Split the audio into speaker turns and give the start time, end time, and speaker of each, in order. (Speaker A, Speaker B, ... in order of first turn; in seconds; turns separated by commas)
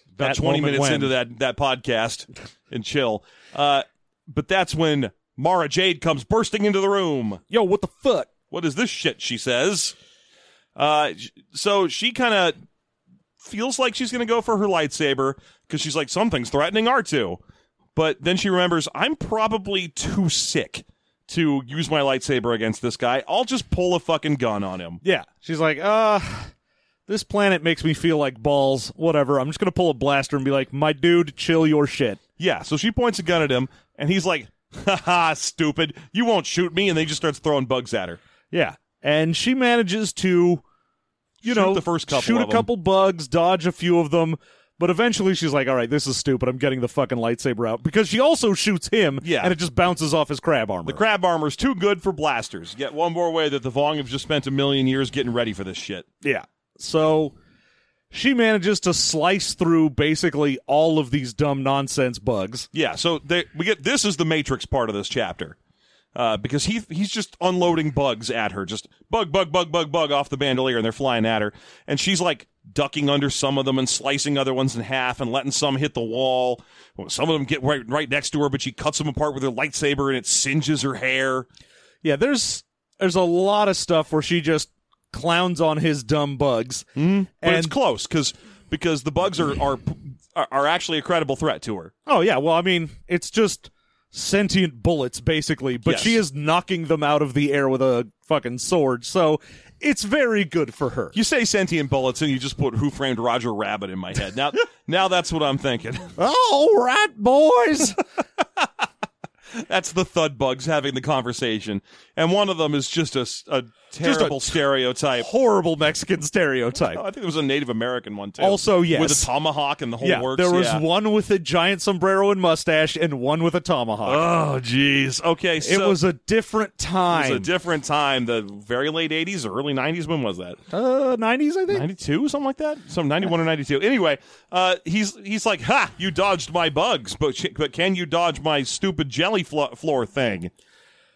Speaker A: 0.2-7.4, Speaker B: 0.2-1.1, Speaker B: 7.5-8.3, Speaker A: 8.5-9.9, Speaker A: 10.8-12.5, Speaker A: 13.4-17.4, Speaker A: 17.9-25.0, Speaker B: 25.0-26.5, Speaker B: 27.1-32.2, Speaker A: 32.4-38.2, Speaker B: 38.5-40.6, Speaker A: 41.4-42.7, Speaker B: 41.4-51.0, Speaker A: 49.2-49.5, Speaker A: 50.8-56.0, Speaker B: 56.2-57.3, Speaker B: 58.1-62.7, Speaker A: 62.7-65.5, Speaker A: 66.1-81.5, Speaker B: 82.0-86.9, Speaker A: 87.0-91.9, Speaker B: 87.4-87.7, Speaker B: 92.0-101.1, Speaker A: 95.8-96.2, Speaker A: 101.1-106.1, Speaker B: 106.2-108.0, Speaker A: 109.5-115.3, Speaker B: 114.0-114.5, Speaker B: 115.2-117.0, Speaker A: 116.9-120.8, Speaker B: 118.4-119.3, Speaker B: 120.0-124.3, Speaker A: 124.0-126.0, Speaker B: 125.6-127.5, Speaker A: 127.1-130.6, Speaker B: 130.7-131.9, Speaker A: 131.7-140.5